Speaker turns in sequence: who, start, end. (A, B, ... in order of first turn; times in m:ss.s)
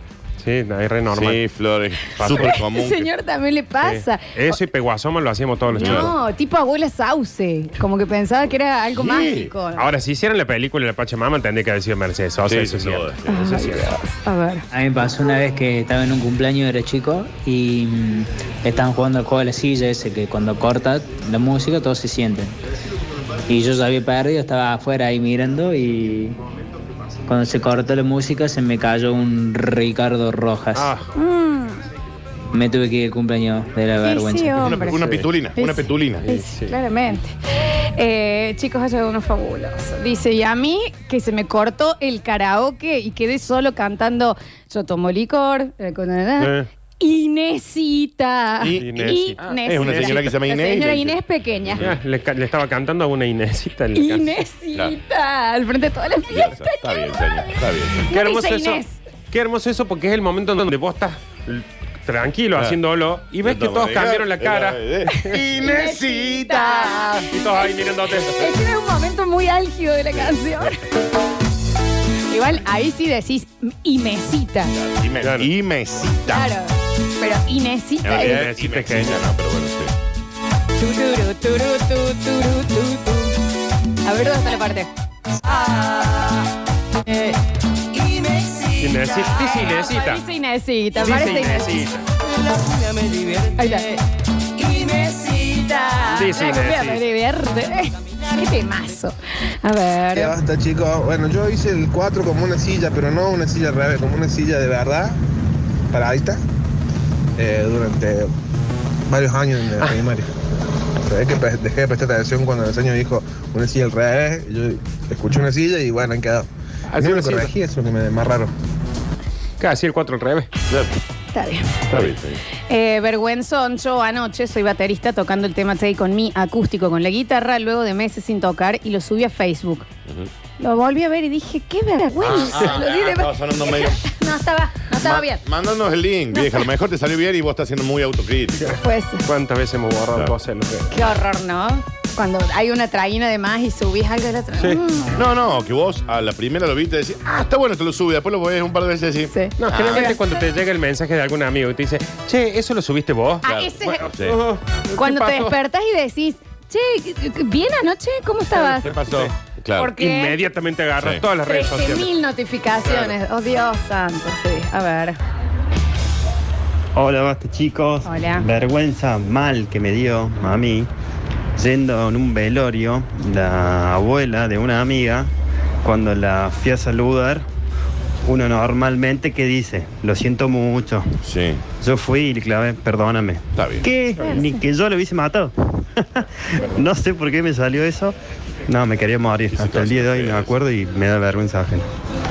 0:00.4-0:01.4 A
0:01.1-0:03.1 B
0:02.1-0:02.6 A
0:02.3-0:04.6 C
0:03.8-0:06.1 A
0:05.7-0:09.9 C
0:05.8-0:06.1 B
0:09.0-0:09.5 B
0:09.8-0:13.9 A
0:12.5-0:13.4 B
0:13.3-0:14.6 C
0:14.7-0:22.6 D
0:23.5-0:26.4 D
0:27.3-0:30.9 D
0:30.8-0:31.1 A
0:31.2-0:31.8 C
0:32.5-0:34.7 D
0:34.0-0:35.0 C
0:34.6-0:36.2 B
0:35.0-0:35.2 A
0:35.6-0:51.9 C
0:36.2-0:36.8 A
0:46.4-0:46.7 A
0:48.6-0:51.2 B
0:48.8-0:50.2 A
0:51.7-0:52.0 B
0:51.8-0:54.4 A
0:54.0-0:59.0 C
0:56.3-0:58.0 B
0:58.1-1:05.4 A
1:03.4-1:07.3 B
1:05.1-1:07.3 C
1:07.3-1:08.5 A
1:08.3-1:10.8 C
1:12.3-1:14.7 C
1:14.8-1:16.5 B
1:15.2-1:15.5 A
1:16.3-1:18.4 C
1:18.0-1:19.9 B
1:18.2-1:19.2 A
1:20.8-1:23.4 C
1:24.0-1:24.9 C
1:28.8-1:30.2 A
1:29.3-1:31.9 C
1:31.0-1:32.0 A
1:33.6-1:33.9 C
1:34.6-1:40.3 C
1:36.1-1:37.1 A
1:40.1-1:45.2 E
1:45.9-1:46.4 E
1:47.4-1:48.3 E
1:49.1-1:50.3 E
1:51.0-1:58.5 E
1:56.9-1:57.5 A
1:59.6-2:00.5 A
2:00.7-2:00.9 B
2:01.3-2:01.8 C
2:01.9-2:02.4 B
2:02.7-2:09.9 C
2:10.6-2:15.4 C
2:12.2-2:14.0 B
2:15.0-2:18.8 B
2:16.3-2:16.6 C
2:18.8-2:19.2 C
2:19.2-2:20.9 A
2:20.9-2:25.2 C
2:25.2-2:30.1 B
2:29.3-2:30.4 C
2:29.6-2:35.6 A
2:33.4-2:34.1 C
2:33.4-2:34.4 B
2:35.0-2:38.9 C
2:38.6-2:39.9 B
2:39.8-2:40.4 C
2:40.0-2:42.1 A
2:41.0-2:41.2 B
2:41.5-2:45.2 C
2:47.0-2:50.9 F
2:48.0-2:48.4 C
2:51.6-2:55.3 F
2:55.8-2:57.5 F
2:58.2-3:01.1 F
3:01.2-3:01.6 B
3:01.8-3:08.2 F
3:03.6-3:03.9 B
3:04.2-3:04.6 C
3:08.7-3:11.9 F
3:09.5-3:10.5 B